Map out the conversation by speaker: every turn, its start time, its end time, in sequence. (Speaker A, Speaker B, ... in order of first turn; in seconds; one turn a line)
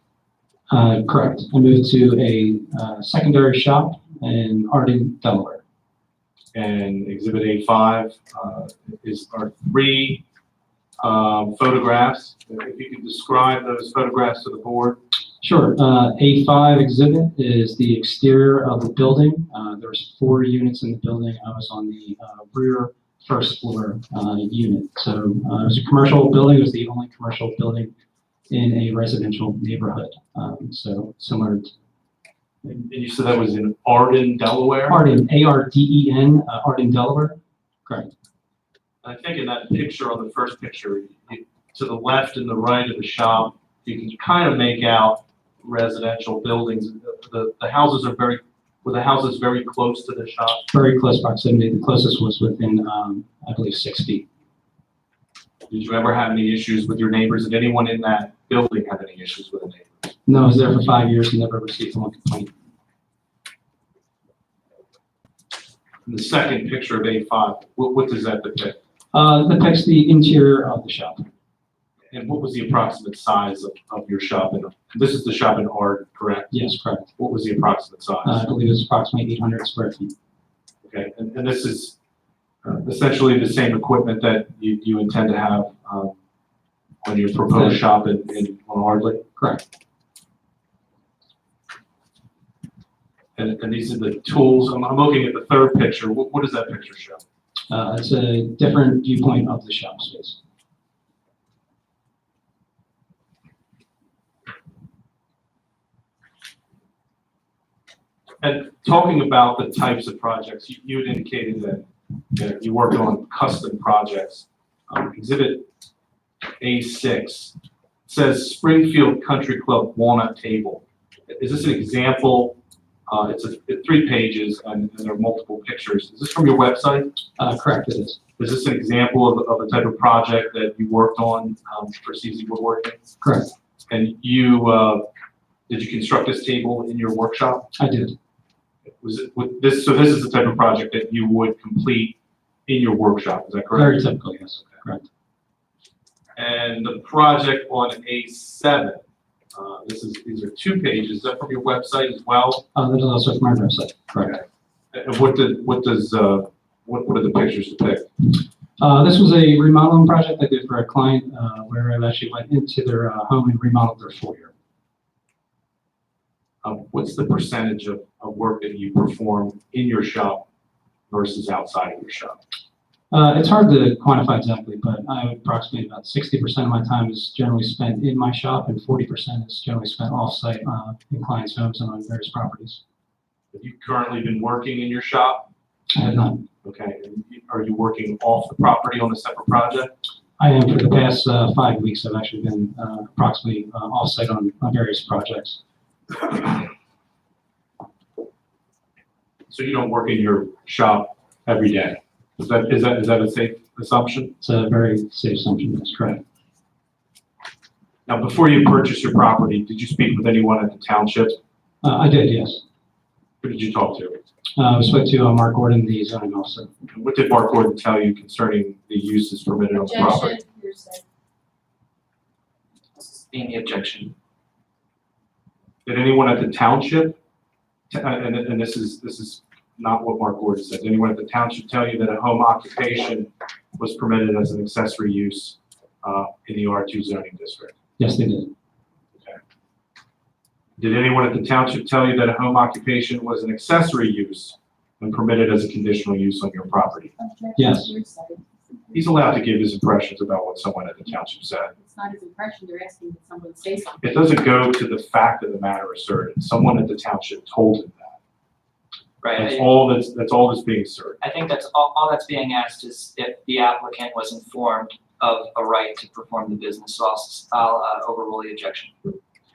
Speaker A: 0.7-5.6
Speaker B: 6.5-10.2
Speaker B: 11.0-15.0
Speaker A: 15.4-27.9
Speaker A: 28.5-31.7
Speaker B: 32.6-35.0
Speaker A: 34.9-38.1
Speaker B: 39.0-50.6
Speaker A: 50.7-54.2
Speaker B: 55.7-60.2
Speaker A: 60.2-62.5
Speaker B: 66.0-68.8
Speaker A: 69.1-71.3
Speaker B: 72.1-76.5
Speaker A: 76.5-77.1
Speaker B: 77.2-78.4
Speaker A: 78.2-80.1
Speaker B: 80.8-82.0
Speaker B: 82.6-86.1
Speaker B: 87.0-89.2
Speaker A: 87.5-87.8
Speaker A: 89.3-89.6
Speaker B: 93.3-97.2
Speaker A: 97.7-100.4
Speaker B: 108.4-115.7
Speaker B: 116.6-117.5
Speaker B: 118.0-122.6
Speaker B: 123.1-127.1
Speaker A: 127.4-128.2
Speaker B: 128.4-133.1
Speaker A: 133.2-133.5
Speaker B: 133.9-135.1
Speaker B: 135.7-137.7
Speaker A: 137.8-138.1
Speaker B: 139.0-144.0
Speaker A: 143.7-145.0
Speaker B: 146.3-152.7
Speaker A: 152.7-154.4
Speaker B: 154.9-158.1
Speaker A: 158.8-164.5
Speaker B: 166.6-170.4
Speaker B: 171.1-172.4
Speaker A: 173.1-182.8
Speaker B: 183.5-185.5
Speaker A: 185.9-186.4
Speaker B: 186.6-189.9
Speaker A: 190.4-195.6
Speaker B: 199.5-204.3
Speaker A: 204.4-206.2
Speaker B: 208.1-211.4
Speaker A: 211.8-212.6
Speaker B: 213.4-214.2
Speaker A: 214.6-216.7
Speaker B: 216.9-220.4
Speaker C: 219.7-221.0
Speaker D: 223.0-224.1
Speaker B: 225.8-227.2
Speaker B: 227.9-237.7
Speaker A: 238.0-238.5
Speaker B: 240.8-247.1
Speaker C: 247.2-248.9
Speaker A: 247.6-247.9
Speaker B: 248.9-251.7
Speaker C: 251.8-254.2
Speaker B: 254.0-258.1
Speaker D: 259.2-259.7
Speaker B: 259.3-261.2
Speaker D: 261.2-269.1